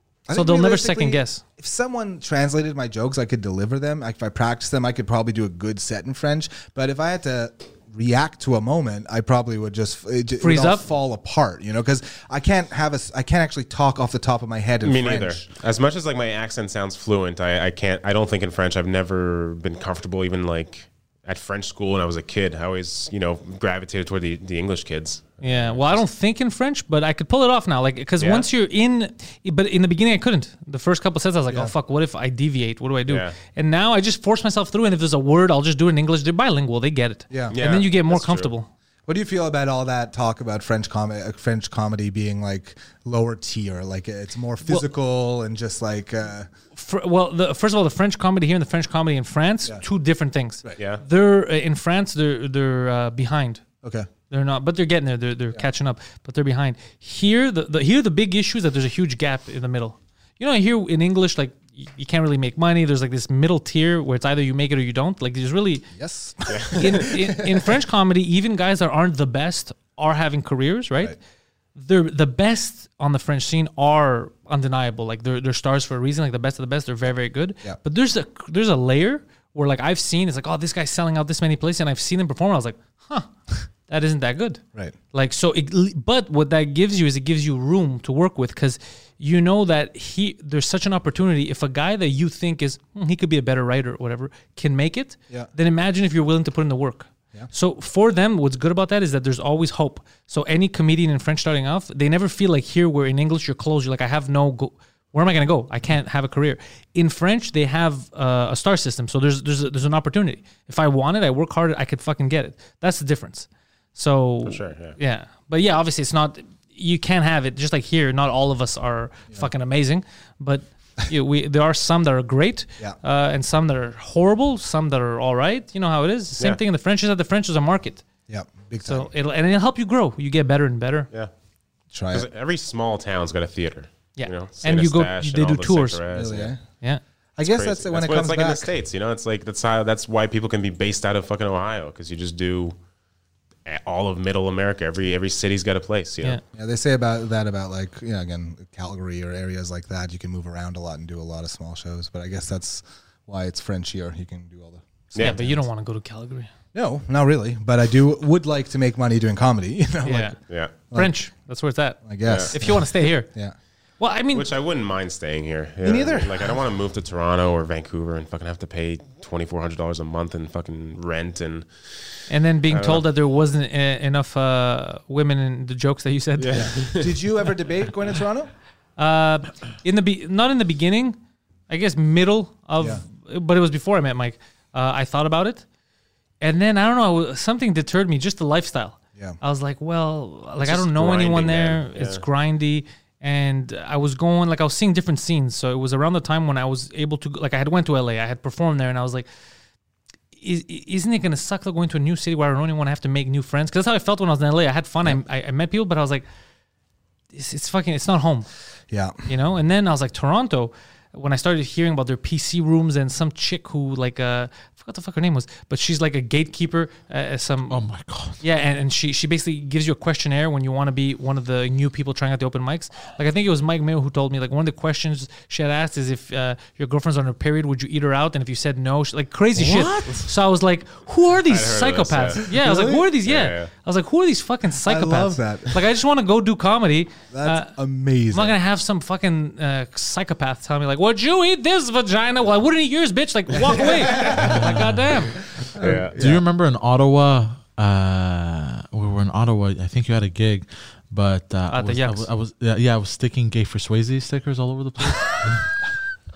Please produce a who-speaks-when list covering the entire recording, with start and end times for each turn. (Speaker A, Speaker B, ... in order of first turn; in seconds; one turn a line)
Speaker A: 0.3-15.4
Speaker B: 0.3-1.4
Speaker B: 10.4-10.8
Speaker C: 14.8-26.0
Speaker B: 25.4-38.7
Speaker C: 28.2-28.5
Speaker C: 33.1-33.3
Speaker A: 37.3-37.5
Speaker C: 37.5-38.5
Speaker A: 39.1-46.5
Speaker B: 46.7-53.6
Speaker C: 50.8-51.0
Speaker A: 53.8-54.1
Speaker B: 54.3-65.8
Speaker A: 65.9-67.7
Speaker C: 66.5-67.1
Speaker B: 66.7-71.2
Speaker B: 71.7-83.3
Speaker B: 83.9-84.6
Speaker B: 85.1-128.0
Speaker C: 114.4-115.0
Speaker A: 128.3-129.1
Speaker B: 128.8-131.1
Speaker A: 131.9-132.2
Speaker C: 132.1-136.5
Speaker B: 134.2-136.0
Speaker A: 136.1-136.6
Speaker A: 137.4-138.7
Speaker C: 137.4-142.8
Speaker C: 143.7-146.4
Speaker A: 146.5-155.7
Speaker C: 155.1-155.4
Speaker B: 155.2-156.5
Speaker A: 156.7-160.4
Speaker B: 160.0-160.4
Speaker C: 160.5-160.7
Speaker B: 160.9-163.3
Speaker A: 162.0-163.5
Speaker C: 162.2-162.5
Speaker B: 164.0-164.5
Speaker C: 164.3-171.9
Speaker A: 165.8-166.6
Speaker B: 172.3-176.7
Speaker C: 172.7-173.1
Speaker C: 176.4-177.2
Speaker A: 176.5-178.5
Speaker B: 179.0-181.2
Speaker B: 181.7-185.6
Speaker B: 186.4-199.2
Speaker C: 190.6-192.2
Speaker B: 200.4-206.2
Speaker B: 207.3-208.5
Speaker A: 208.9-209.2
Speaker B: 209.2-217.8
Speaker D: 217.7-218.4
Speaker B: 218.4-237.7
Speaker D: 229.6-230.2
Speaker C: 231.5-232.4
Speaker A: 232.5-233.1
Speaker C: 233.2-233.7
Speaker A: 234.8-235.8
Speaker A: 237.3-238.6
Speaker B: 238.3-245.4
Speaker A: 243.7-244.6
Speaker D: 244.4-245.0
Speaker A: 245.7-246.4
Speaker C: 245.8-246.2
Speaker D: 246.1-255.6
Speaker B: 251.7-252.3